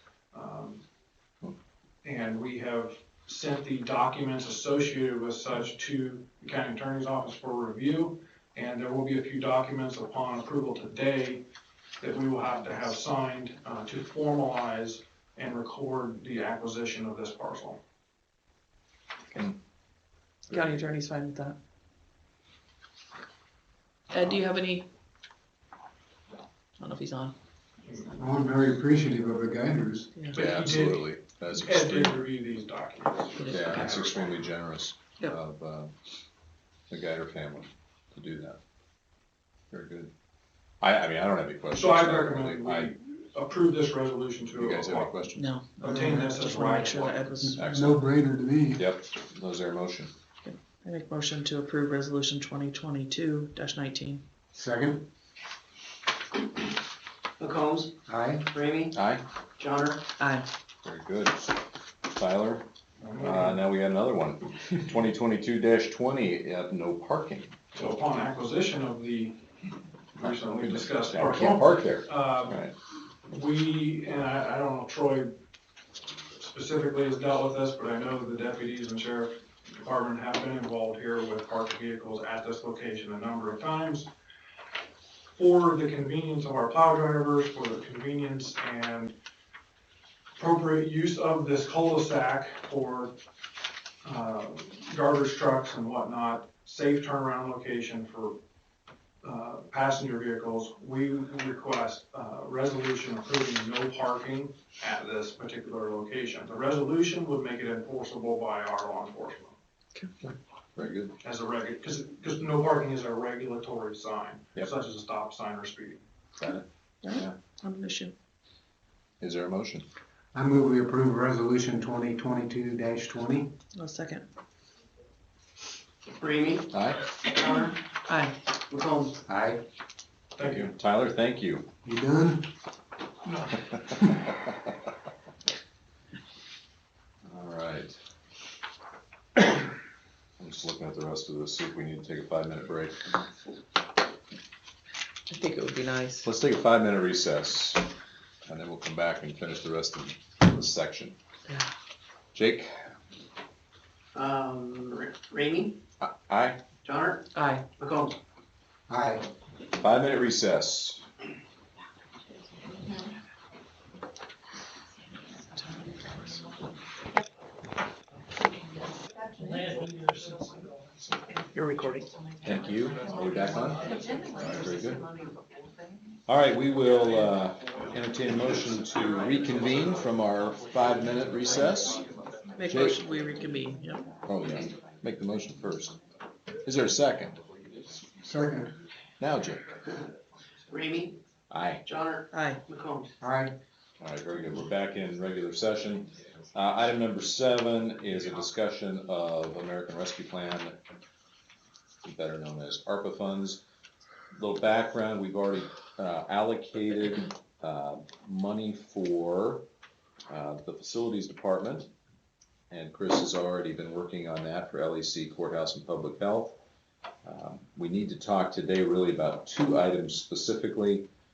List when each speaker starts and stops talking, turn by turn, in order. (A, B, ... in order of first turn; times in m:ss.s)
0:00.3-0:00.8 A
0:02.0-0:11.4 A
0:12.0-0:17.8 A
0:20.5-0:20.9 B
0:20.5-0:21.6 C
0:24.1-0:24.9 C
0:26.8-0:27.3 C
0:28.1-0:30.1 D
0:30.3-0:34.3 A
0:30.3-0:32.2 B
0:33.4-0:35.9 B
0:36.9-0:38.6 B
0:39.7-0:40.1 B
0:40.8-0:42.9 B
0:41.7-0:45.1 A
0:44.5-0:45.5 B
0:45.3-0:47.6 C
0:45.8-0:47.3 A
0:47.4-0:48.9 D
0:47.5-0:48.1 B
0:48.8-0:50.1 B
0:50.4-0:54.2 C
0:54.5-0:55.0 D
0:57.4-0:59.0 E
0:58.1-0:58.5 D
0:58.9-0:59.2 B
0:59.6-1:00.0 E
1:00.2-1:00.5 C
1:00.8-1:01.5 B
1:02.1-1:02.6 B
1:03.0-1:03.6 A
1:03.2-1:07.5 B
1:07.7-1:09.4 A
1:10.1-1:12.6 A
1:10.2-1:12.7 B
1:13.3-1:15.4 A
1:16.4-1:24.1 A
1:25.3-1:29.1 A
1:30.4-1:33.1 A
1:34.0-1:38.4 A
1:39.2-1:49.6 A
1:50.2-1:51.1 B
1:51.2-1:56.0 A
1:56.4-1:57.3 B
1:57.0-1:58.1 C
1:59.2-1:59.8 B
2:00.3-2:03.5 D
2:03.7-2:04.3 C
2:06.1-2:07.8 E
2:06.7-2:07.1 B
2:08.1-2:08.4 C
2:08.7-2:09.2 E
2:09.2-2:09.6 D
2:10.4-2:10.7 A
2:10.4-2:11.7 B
2:11.8-2:12.5 D
2:13.5-2:14.1 B
2:17.2-2:18.0 B
2:20.4-2:23.0 B
2:25.3-2:26.3 C
2:26.2-2:27.8 B
2:28.4-2:31.2 B
2:32.3-2:32.7 B
2:34.1-2:35.8 E
2:36.0-2:36.6 B
2:36.8-2:38.2 E
2:37.3-2:37.6 C
2:38.9-2:39.2 D
2:39.7-2:41.0 B
2:45.7-2:46.4 C
2:51.5-2:52.1 E
2:52.4-2:53.8 B
2:54.4-2:55.0 B
2:56.3-3:02.0 B
3:02.6-3:04.0 C
3:02.7-3:03.0 B
3:04.2-3:06.0 B
3:06.6-3:07.4 B
3:08.2-3:08.7 D
3:09.2-3:09.7 B
3:10.7-3:11.2 E
3:11.5-3:11.8 B
3:11.8-3:13.1 E
3:12.3-3:12.6 C
3:13.2-3:13.6 D
3:14.0-3:20.8 B
3:22.0-3:23.6 B
3:24.3-3:29.6 B
3:30.3-3:31.9 B
3:32.7-3:36.6 B
3:37.2-3:41.1 B